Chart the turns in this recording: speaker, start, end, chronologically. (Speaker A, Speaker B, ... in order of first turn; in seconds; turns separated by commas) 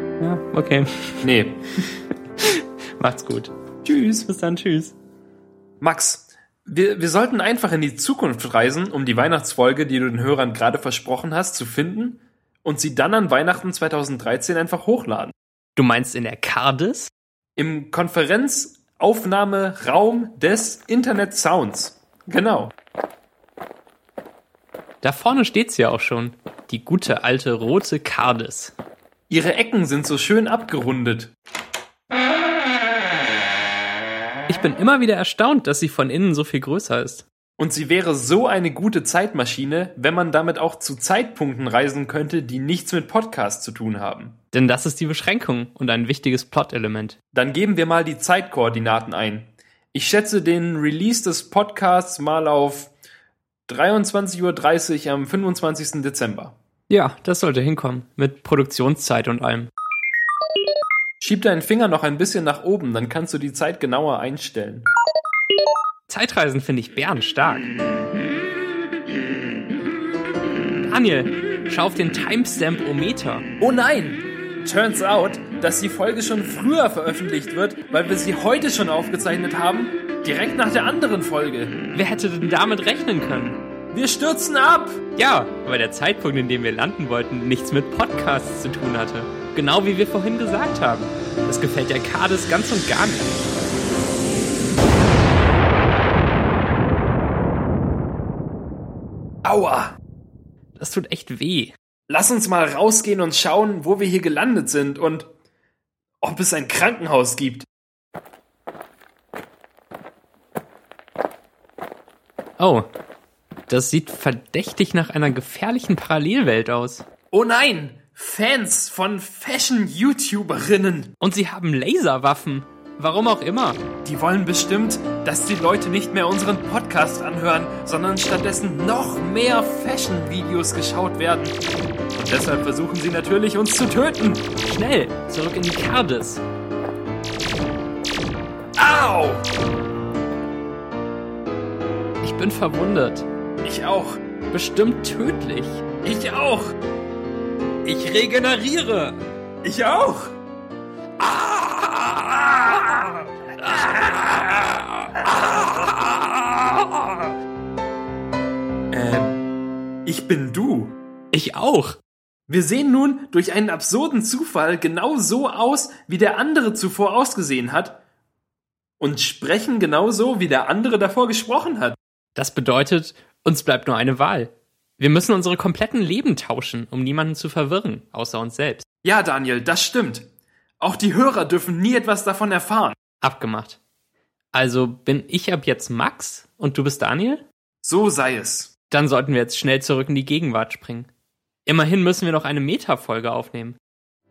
Speaker A: 0.2-0.9, Speaker B: 1.2-1.6, Speaker A: 2.4-4.9, Speaker B: 5.8-15.3, Speaker A: 15.8-17.1, Speaker B: 17.6-22.7, Speaker A: 25.0-28.7, Speaker B: 29.3-31.3, Speaker A: 34.5-37.2, Speaker B: 37.6-44.4, Speaker A: 44.5-47.1, Speaker B: 47.3-52.9, Speaker B: 53.7-56.5, Speaker A: 56.9-59.7, Speaker B: 61.2-64.9, Speaker A: 66.1-67.7, Speaker A: 70.8-73.4, Speaker B: 73.6-81.8, Speaker A: 81.9-83.6, Speaker B: 83.9-85.0, Speaker A: 85.2-93.4, Speaker B: 99.4-99.9, Speaker A: 100.8-101.7, Speaker B: 102.1-105.3, Speaker B: 106.2-107.7, Speaker A: 112.6-112.9, Speaker A: 113.7-117.0, Speaker B: 117.3-121.1, Speaker A: 121.2-123.8, Speaker B: 124.0-131.6, Speaker B: 132.1-134.4, Speaker A: 134.7-136.4, Speaker B: 138.8-139.4, Speaker A: 142.2-143.2, Speaker B: 143.6-144.2, Speaker A: 144.5-145.8, Speaker B: 146.0-146.7, Speaker A: 147.8-149.2, Speaker B: 149.6-150.3, Speaker A: 151.2-152.4, Speaker A: 155.4-157.0, Speaker B: 158.9-159.4, Speaker B: 160.1-160.9, Speaker A: 161.3-162.0, Speaker B: 162.5-168.0, Speaker B: 169.0-172.0, Speaker A: 172.3-178.8, Speaker B: 179.0-180.3, Speaker B: 180.8-183.0, Speaker A: 183.2-183.8, Speaker A: 184.5-187.4, Speaker B: 187.8-188.7, Speaker A: 188.9-191.1, Speaker A: 191.7-193.8